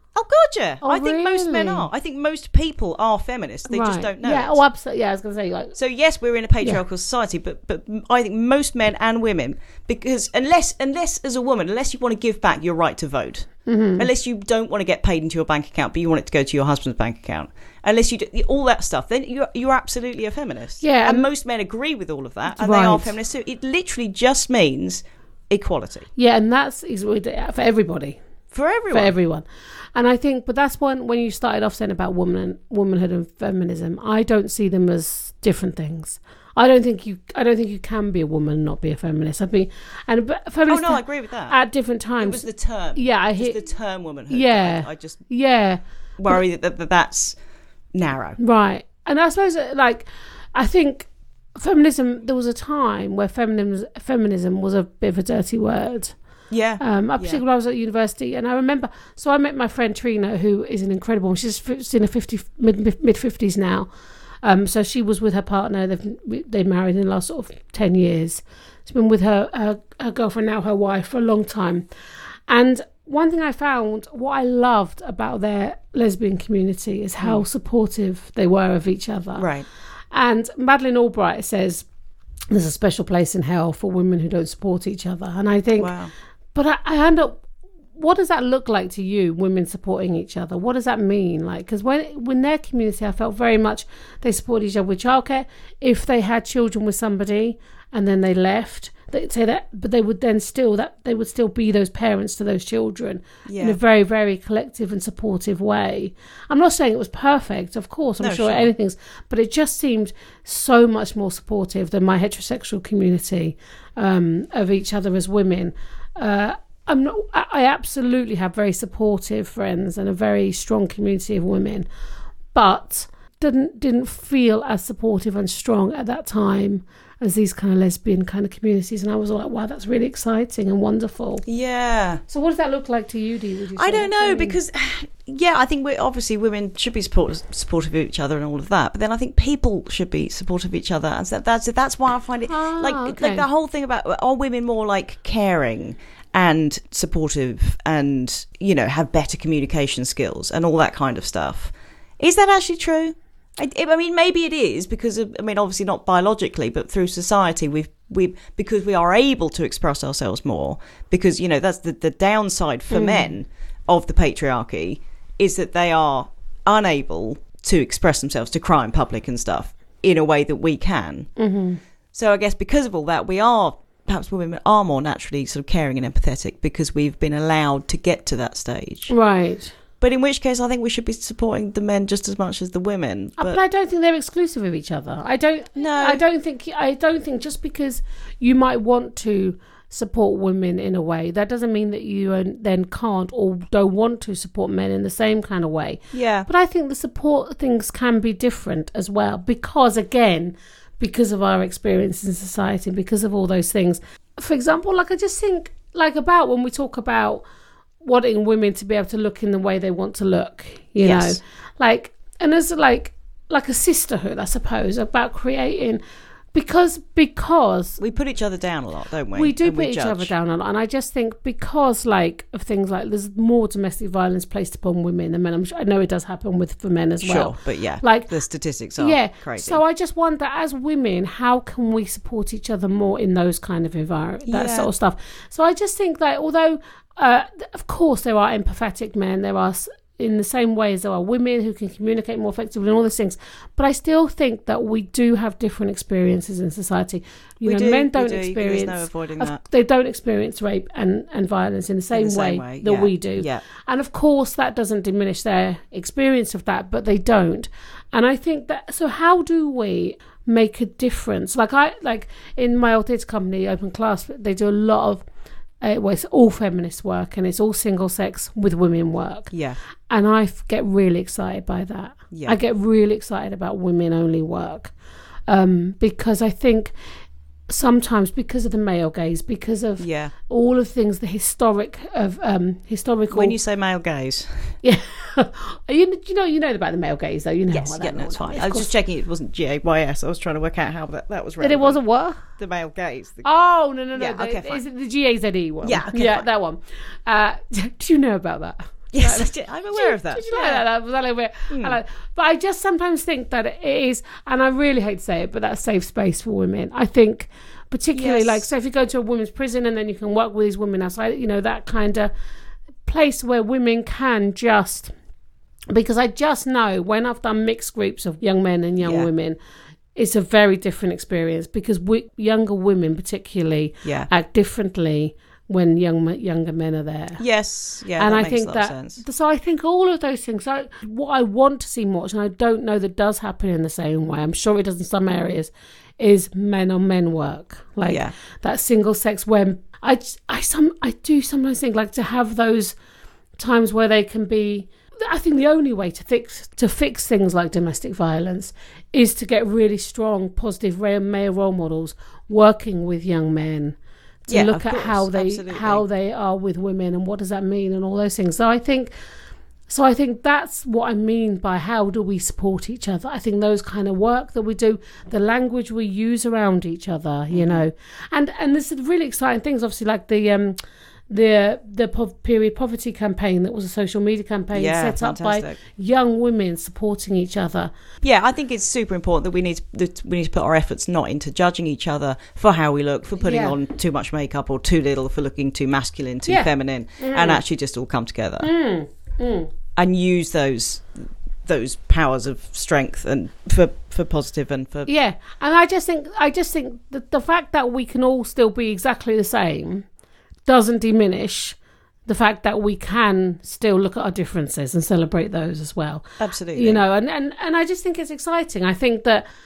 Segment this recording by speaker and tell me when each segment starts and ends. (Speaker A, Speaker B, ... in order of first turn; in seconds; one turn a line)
Speaker A: 0.1-4.6
Speaker B: 0.8-1.9
Speaker B: 3.7-5.7
Speaker A: 5.7-26.1
Speaker B: 13.7-14.1
Speaker B: 20.8-21.3
Speaker B: 22.5-23.1
Speaker B: 26.1-28.2
Speaker A: 28.5-29.1
Speaker B: 28.9-43.6
Speaker A: 40.7-41.6
Speaker A: 42.2-45.2
Speaker B: 44.3-46.4
Speaker A: 46.2-47.4
Speaker A: 47.9-48.4
Speaker B: 48.4-56.1
Speaker A: 56.5-57.4
Speaker B: 56.8-63.9
Speaker B: 64.4-71.9
Speaker B: 72.5-79.5
Speaker A: 79.4-79.7
Speaker B: 80.1-81.8
Speaker B: 82.5-85.9
Speaker A: 85.8-86.1
Speaker B: 86.5-87.4
Speaker B: 87.9-121.9
Speaker A: 103.5-103.8
Speaker A: 108.2-108.7
Speaker B: 122.5-131.4
Speaker A: 131.4-132.2
Speaker B: 132.3-134.6
Speaker A: 133.8-171.3
Speaker B: 142.5-143.4
Speaker B: 162.9-163.3
Speaker B: 171.4-171.8
Speaker A: 172.1-179.1
Speaker B: 179.1-179.7
Speaker A: 180.0-183.6
Speaker B: 183.4-207.4
Speaker A: 185.8-186.2
Speaker A: 196.1-196.5
Speaker B: 208.0-216.0
Speaker A: 211.0-211.4
Speaker B: 216.5-218.0
Speaker A: 218.0-220.3
Speaker B: 219.3-228.3
Speaker A: 227.2-229.8
Speaker B: 229.0-265.2
Speaker A: 234.4-234.9
Speaker A: 247.6-249.6
Speaker A: 252.1-253.6
Speaker B: 265.8-269.5
Speaker A: 269.5-269.8
Speaker B: 270.1-274.9
Speaker A: 272.3-272.6
Speaker B: 275.5-276.9
Speaker B: 277.7-283.6
Speaker A: 280.0-280.3
Speaker A: 283.3-284.7
Speaker B: 284.8-288.9
Speaker A: 287.7-292.0
Speaker B: 291.6-292.4
Speaker A: 292.6-293.5
Speaker B: 293.4-312.3
Speaker A: 294.1-294.8
Speaker A: 295.8-296.5
Speaker A: 299.1-300.8
Speaker A: 301.7-302.0
Speaker A: 308.1-308.6
Speaker B: 313.0-315.1
Speaker B: 315.9-319.6
Speaker A: 319.0-319.3
Speaker B: 320.1-327.4
Speaker A: 324.0-324.3
Speaker A: 327.4-329.2
Speaker B: 328.2-342.9
Speaker A: 338.0-338.3
Speaker B: 343.6-359.1
Speaker A: 354.5-356.0
Speaker B: 359.9-370.8
Speaker A: 367.5-367.8
Speaker B: 371.3-377.9
Speaker A: 374.7-375.8
Speaker A: 378.2-388.7
Speaker B: 383.4-383.8
Speaker B: 386.4-387.6
Speaker B: 388.6-389.7
Speaker A: 389.9-395.1
Speaker B: 395.1-400.1
Speaker B: 400.6-409.4
Speaker A: 406.4-407.0